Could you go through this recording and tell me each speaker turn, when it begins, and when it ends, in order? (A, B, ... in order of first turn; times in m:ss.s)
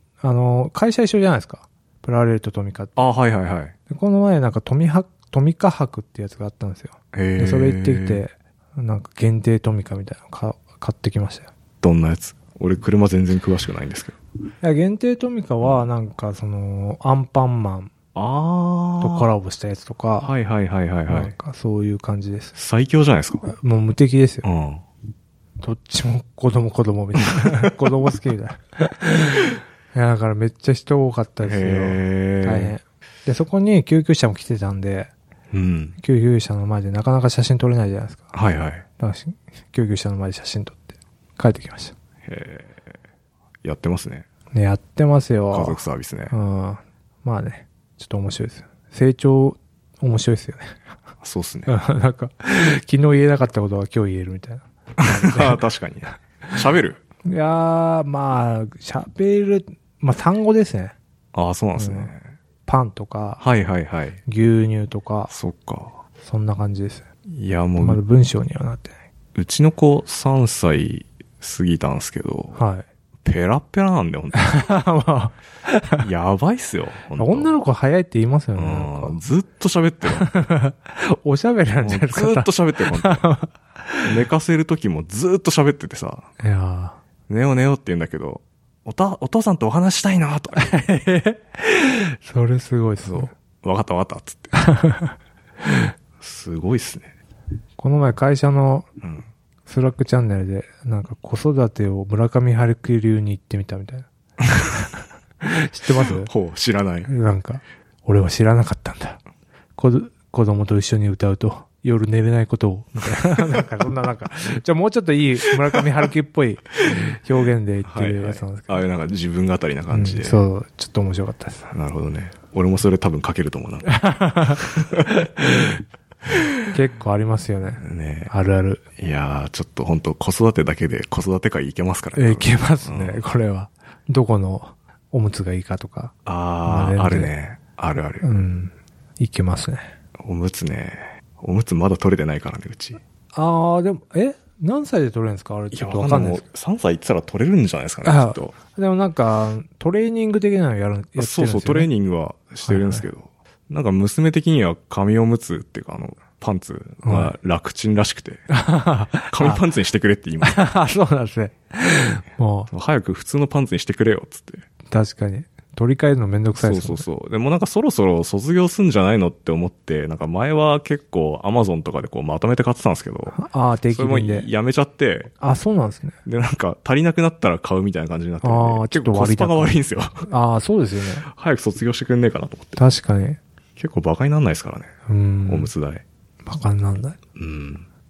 0:00.2-0:03.0 A
0:03.0-0:03.7 B
0:03.9-0:11.5 A
0:07.1-0:08.2 B
0:11.8-0:14.2 B
0:14.6-0:17.9 A
0:15.6-0:15.9 B
0:18.1-0:19.3 B
0:19.0-0:20.3 A
0:20.2-0:21.3 B
0:21.1-0:22.5 A
0:22.5-0:23.4 B
0:23.4-0:24.4 A
0:24.4-0:24.8 B
0:25.6-0:35.1 A
0:31.4-0:32.8 B
0:35.5-0:36.0 B
0:36.0-0:38.3 A
0:38.3-0:38.9 B
0:39.0-0:40.9 A
0:41.4-0:41.9 A
0:42.2-0:42.9 B
0:43.6-0:44.2 B
0:44.5-0:45.8 A
0:45.5-0:46.4 B
0:46.3-0:50.8 A
0:51.2-0:51.7 B
0:51.6-0:55.6 A
0:55.0-0:57.0 B
0:57.2-1:00.9 A
1:01.3-1:02.2 B
1:01.8-1:02.1 A
1:02.6-1:03.4 A
1:03.4-1:04.2 B
1:04.2-1:05.3 A
1:05.3-1:06.0 B
1:06.2-1:07.0 A
1:07.3-1:08.0 B
1:07.8-1:08.9 A
1:09.4-1:12.6 B
1:12.6-1:12.9 A
1:13.2-1:14.5 B
1:14.3-1:16.0 A
1:16.0-1:17.5 B
1:17.2-1:19.2 A
1:18.6-1:20.3 B
1:20.1-1:24.1 A
1:21.8-1:23.2 B
1:24.0-1:26.3 B
1:26.4-1:27.0 A
1:27.3-1:30.8 B
1:30.6-1:33.3 A
1:33.0-1:34.5 B
1:34.5-1:35.1 A
1:36.2-1:37.1 B
1:37.8-1:38.9 A
1:39.0-1:39.2 B
1:39.6-1:44.1 A
1:45.4-1:46.3 A
1:46.0-1:47.1 B
1:47.0-1:49.2 A
1:49.8-1:58.8 A
1:57.8-2:00.4 B
1:59.9-2:01.7 A
2:01.7-2:04.0 B
2:03.9-2:05.3 A
2:04.5-2:06.5 B
2:06.7-2:08.8 A
2:07.8-2:08.3 B
2:09.0-2:13.2 B
2:12.2-2:16.1 A
2:16.2-2:18.2 B
2:16.6-2:17.3 A
2:18.2-2:19.9 A
2:20.2-2:23.0 B
2:23.3-2:26.4 A
2:25.7-2:28.6 B
2:28.0-2:31.9 A
2:31.2-2:38.4 B
2:32.6-2:33.1 A
2:37.0-2:37.3 A
2:38.5-2:39.6 A
2:39.3-2:40.6 B
2:40.4-2:42.7 A
2:42.7-2:44.6 B
2:44.9-2:47.0 A
2:46.6-2:53.4 B
2:53.3-2:54.5 A
2:53.9-2:55.3 B
2:55.4-2:56.2 A
2:56.2-3:00.2 B
2:58.4-3:01.3 A
3:01.2-3:02.8 B
3:02.8-3:03.4 A
3:03.8-3:04.9 B
3:05.1-3:05.7 A
3:05.5-3:06.0 B
3:06.4-3:07.2 A
3:07.4-3:07.8 B